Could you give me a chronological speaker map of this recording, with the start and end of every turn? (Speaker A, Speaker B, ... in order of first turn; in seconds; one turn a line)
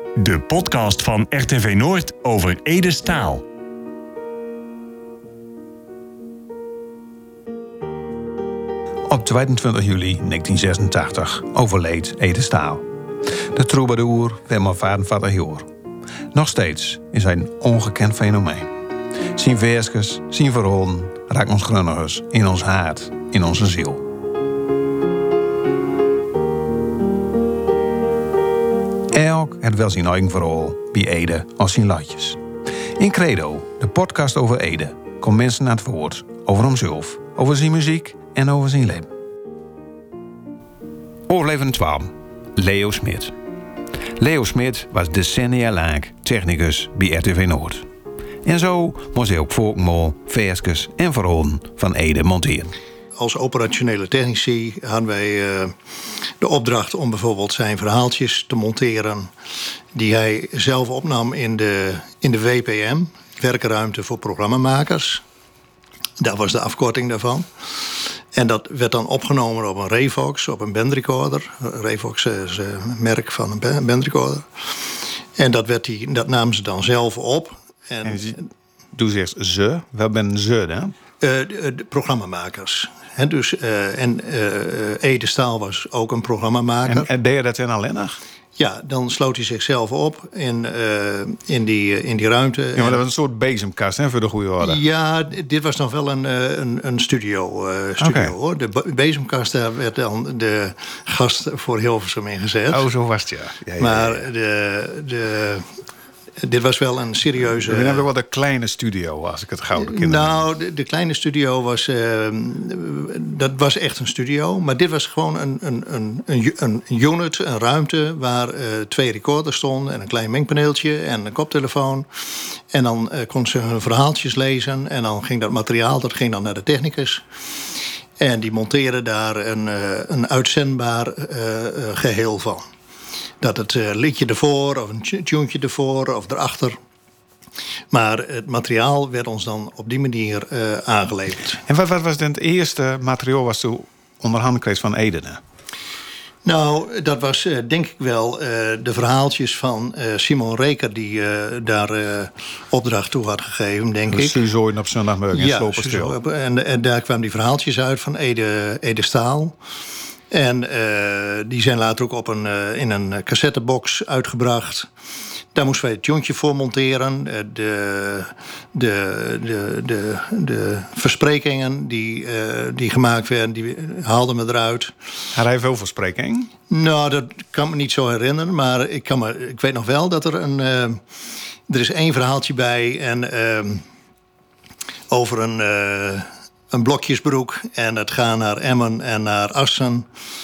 Speaker A: 0.2-3.5
Speaker B: 9.1-12.8
Speaker B: 13.5-15.7
Speaker B: 16.3-18.7
Speaker B: 19.3-24.0
Speaker B: 29.1-32.4
Speaker B: 33.0-39.1
Speaker B: 41.3-43.3
Speaker B: 44.2-47.9
Speaker B: 48.4-52.7
Speaker C: 53.2-55.7
Speaker C: 56.4-59.3
Speaker C: 59.9-65.2
Speaker C: 66.2-67.5
Speaker C: 68.3-74.8
Speaker C: 75.4-78.5
Speaker B: 78.0-78.4
Speaker B: 78.9-81.0
Speaker C: 81.2-87.1
Speaker B: 86.9-88.2
Speaker C: 88.6-93.0
Speaker B: 92.8-94.8
Speaker C: 94.6-102.9
Speaker B: 98.0-98.3
Speaker B: 102.7-104.3
Speaker C: 103.8-105.7
Speaker C: 106.4-108.0
Speaker B: 107.6-110.5
Speaker C: 109.8-122.1
Speaker C: 122.6-127.2
Speaker C: 128.2-132.7
Speaker C: 133.4-136.8
Speaker C: 137.9-141.6
Speaker B: 141.7-145.4
Speaker C: 146.4-154.4
Speaker B: 154.1-156.2
Speaker C: 155.3-159.6
Speaker C: 160.3-164.9
Speaker C: 165.5-174.9
Speaker B: 175.3-176.5
Speaker C: 176.7-181.0
Speaker C: 181.7-183.8
Speaker C: 185.1-190.1